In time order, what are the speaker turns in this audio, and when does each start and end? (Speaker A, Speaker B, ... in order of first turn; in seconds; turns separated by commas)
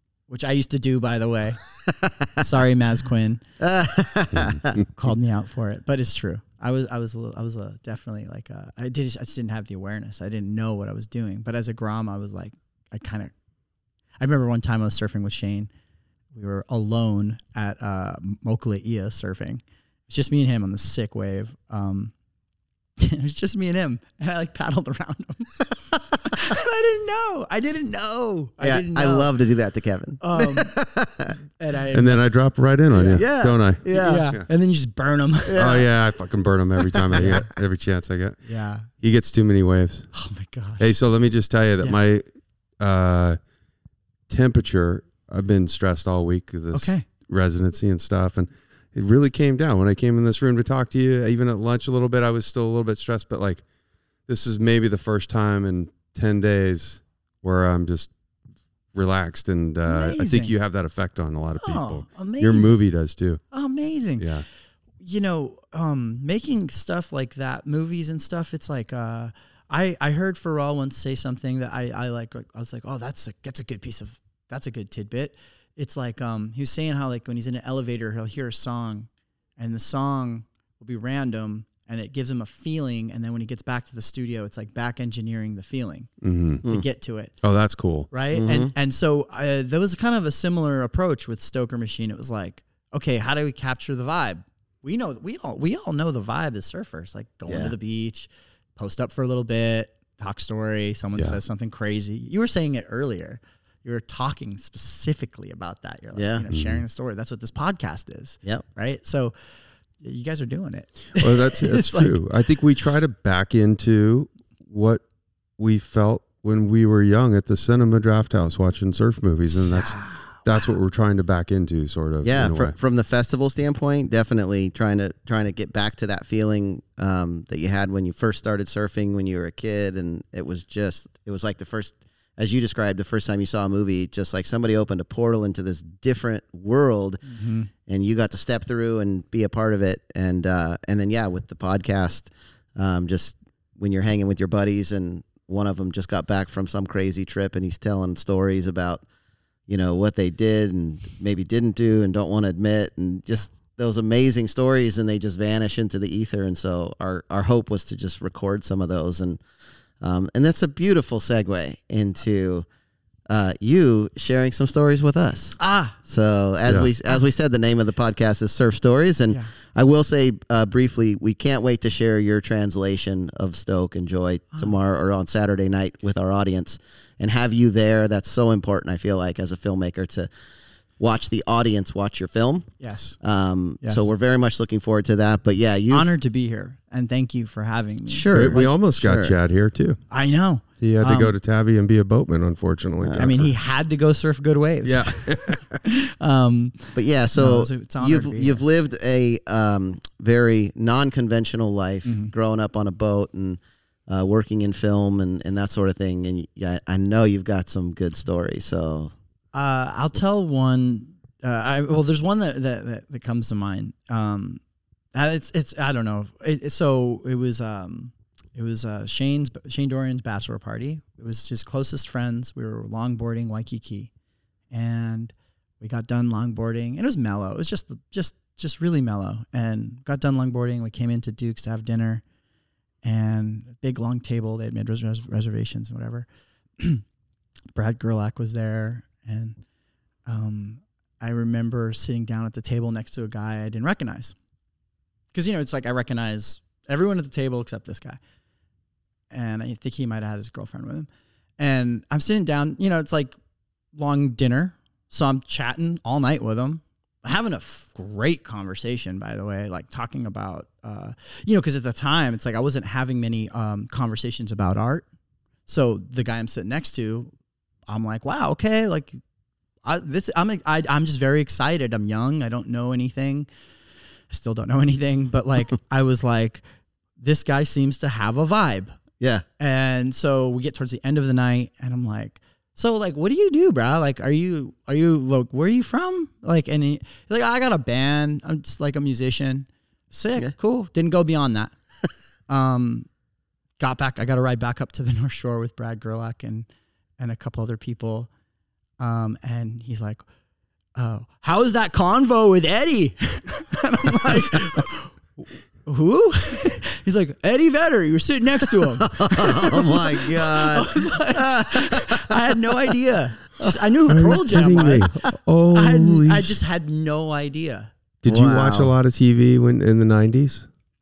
Speaker A: 0.3-1.6, Speaker A: 2.4-3.4, Speaker B: 3.6-4.8, Speaker A: 4.9-13.3, Speaker A: 14.2-15.7, Speaker A: 16.3-22.1, Speaker A: 23.0-25.6, Speaker A: 26.2-29.3, Speaker B: 28.6-31.4, Speaker A: 30.2-30.8, Speaker A: 31.6-32.2, Speaker C: 31.9-34.4, Speaker A: 32.9-33.3, Speaker B: 33.0-34.3, Speaker A: 33.9-35.8, Speaker B: 35.5-35.9, Speaker C: 35.5-38.4, Speaker B: 37.0-37.4, Speaker A: 37.1-37.5, Speaker A: 38.4-38.9, Speaker C: 39.0-40.1, Speaker A: 40.1-40.8, Speaker C: 40.8-42.2, Speaker C: 42.8-43.4, Speaker C: 44.3-53.6, Speaker A: 46.7-47.0, Speaker C: 54.3-58.1, Speaker C: 58.9-63.4, Speaker A: 59.9-60.5, Speaker A: 61.6-62.8, Speaker A: 63.5-64.3, Speaker C: 64.2-64.4, Speaker A: 65.0-86.1, Speaker C: 86.2-86.6, Speaker A: 86.6-87.3, Speaker C: 87.4-88.1, Speaker A: 88.1-109.3, Speaker B: 88.3-88.7, Speaker B: 97.5-97.7, Speaker B: 106.1-106.5, Speaker C: 106.5-106.8, Speaker A: 110.0-112.2, Speaker C: 111.1-115.0, Speaker C: 115.6-122.7, Speaker A: 119.5-120.3, Speaker B: 122.2-137.2, Speaker A: 137.2-137.7, Speaker B: 137.8-149.0, Speaker B: 149.7-159.4, Speaker B: 160.0-162.6, Speaker B: 163.3-180.3, Speaker A: 165.6-166.0, Speaker C: 166.6-166.9, Speaker B: 181.0-182.7, Speaker A: 182.8-183.2, Speaker B: 183.2-186.1, Speaker A: 183.8-184.1, Speaker A: 185.9-188.7, Speaker B: 188.1-189.3, Speaker C: 188.3-190.0, Speaker A: 190.1-191.3, Speaker C: 190.8-193.5, Speaker B: 193.0-193.3, Speaker A: 193.2-198.6, Speaker C: 194.8-195.8, Speaker B: 196.9-209.1, Speaker A: 202.1-202.3, Speaker A: 209.5-214.6, Speaker A: 215.1-224.1, Speaker A: 224.7-232.2, Speaker A: 233.0-236.3, Speaker A: 236.8-237.0, Speaker A: 237.7-239.6, Speaker A: 240.2-244.3, Speaker A: 245.3-248.2, Speaker A: 249.3-251.1, Speaker A: 251.6-253.3, Speaker A: 253.9-265.0, Speaker A: 265.6-267.3, Speaker A: 267.9-269.2, Speaker A: 269.8-273.5, Speaker A: 274.3-276.6, Speaker A: 277.2-278.9, Speaker B: 279.2-279.4, Speaker A: 279.6-291.7, Speaker A: 292.5-293.1, Speaker A: 293.8-296.7, Speaker A: 297.2-298.3, Speaker A: 299.0-300.2, Speaker A: 300.9-305.2, Speaker A: 305.8-317.9, Speaker B: 309.0-312.2, Speaker C: 314.1-316.6, Speaker C: 318.2-320.7, Speaker B: 318.2-318.9